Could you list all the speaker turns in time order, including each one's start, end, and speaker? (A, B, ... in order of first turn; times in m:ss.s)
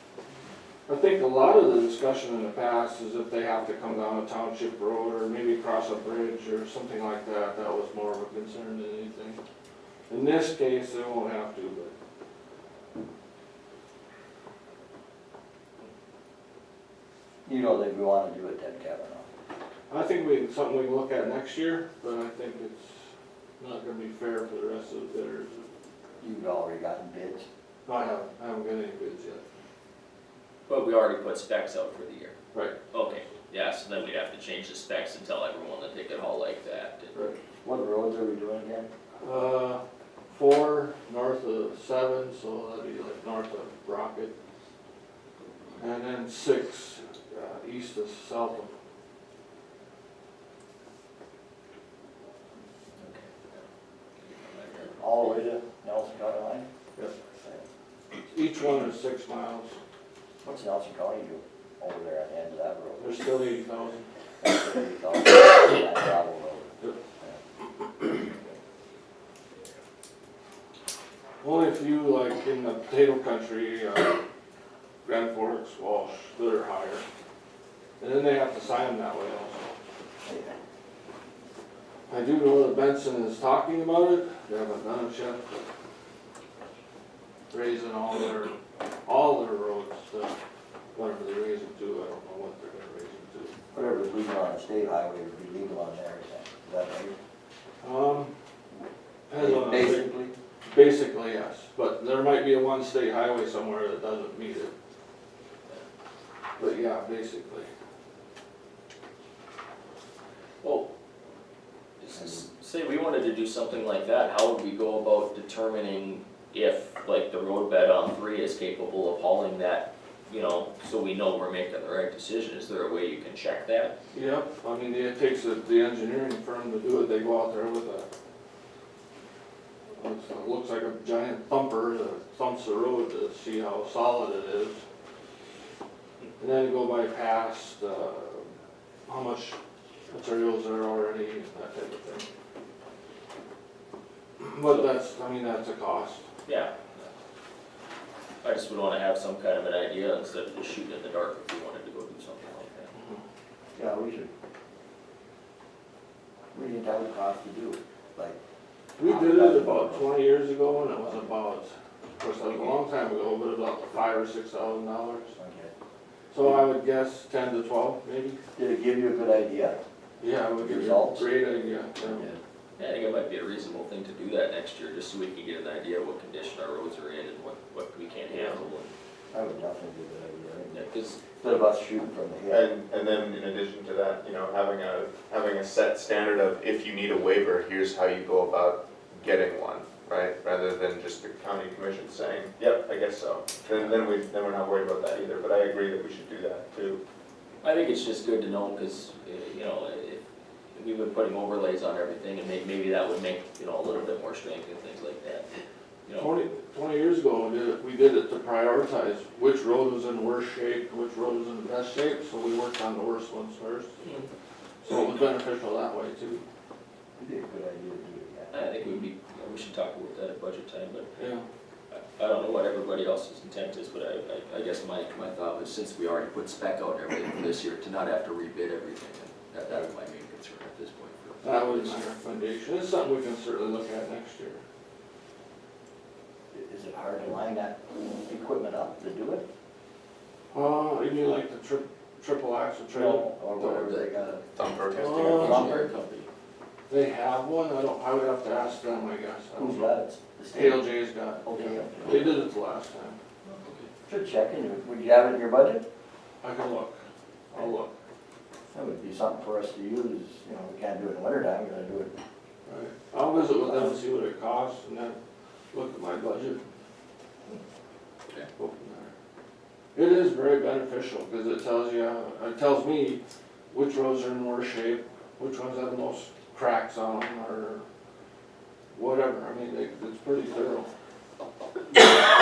0:00.9-0:09.4 A
0:10.1-0:11.9 A
0:17.4-0:19.3 B
0:19.9-0:23.0 A
0:23.6-0:25.7 A
0:26.2-0:27.5 B
0:27.9-0:29.6 A
0:30.7-0:32.3 C
0:32.9-0:37.2 C
0:37.6-0:38.9 B
0:39.2-0:44.3 A
0:45.8-0:48.7 A
0:53.0-0:53.6 C
0:54.2-0:55.0 C
0:55.0-0:56.7 B
0:57.4-0:57.6 B
0:58.3-0:59.8 A
1:00.4-1:03.2 B
1:03.0-1:04.1 A
1:04.4-1:07.4 B
1:08.0-1:08.6 B
1:11.4-1:14.2 A
1:15.0-1:17.0 A
1:18.0-1:19.7 A
1:20.2-1:20.5 B
1:22.1-1:25.6 A
1:27.5-1:28.5 A
1:29.0-1:30.3 A
1:30.9-1:33.5 A
1:33.7-1:37.2 B
1:37.8-1:38.3 A
1:39.3-1:40.1 A
1:39.4-1:40.3 B
1:40.6-1:44.7 A
1:46.6-1:47.7 A
1:50.6-1:50.9 C
1:52.0-2:03.9 C
2:04.1-2:08.1 A
2:10.0-2:14.8 A
2:16.4-2:18.5 A
2:19.1-2:19.6 A
2:20.1-2:22.3 A
2:24.4-2:26.2 A
2:26.4-2:27.1 C
2:28.4-2:32.9 C
2:32.9-2:33.2 A
2:33.7-2:34.3 B
2:36.5-2:38.4 B
2:39.0-2:45.3 A
2:39.0-2:40.2 B
2:41.0-2:41.3 B
2:45.3-2:45.7 B
2:46.3-2:48.4 A
2:48.5-2:49.8 B
2:50.2-2:52.3 A
2:50.6-2:51.3 B
2:52.1-2:52.4 B
2:52.8-2:58.9 C
2:59.3-3:02.7 B
3:00.7-3:01.2 C
3:02.5-3:17.0 D
3:17.6-3:25.5 C
3:26.0-3:26.3 C
3:26.1-3:34.0 A
3:34.0-3:34.3 C
3:34.8-3:36.4 A
3:37.2-3:38.7 B
3:38.5-3:41.1 C
3:41.2-3:41.4 A
3:41.9-3:52.0 C
3:51.4-3:54.6 A
3:56.5-3:59.4 B
4:00.5-4:03.9 A
4:02.9-4:04.4 B
4:03.8-4:04.2 C
4:04.6-4:05.7 D
4:04.9-4:05.8 A
4:05.3-4:06.3 C
4:05.3-4:05.9 B
4:06.9-4:10.0 A
4:09.6-4:12.5 B
4:10.5-4:13.2 A
4:13.4-4:13.9 C
4:14.0-4:15.8 B
4:16.4-4:17.0 A
4:17.5-4:17.9 A
4:18.7-4:22.2 B
4:22.6-4:25.2 A
4:23.5-4:24.0 B
4:25.7-4:26.6 A
4:28.6-4:29.1 A
4:29.9-4:37.8 A
4:38.9-4:40.9 A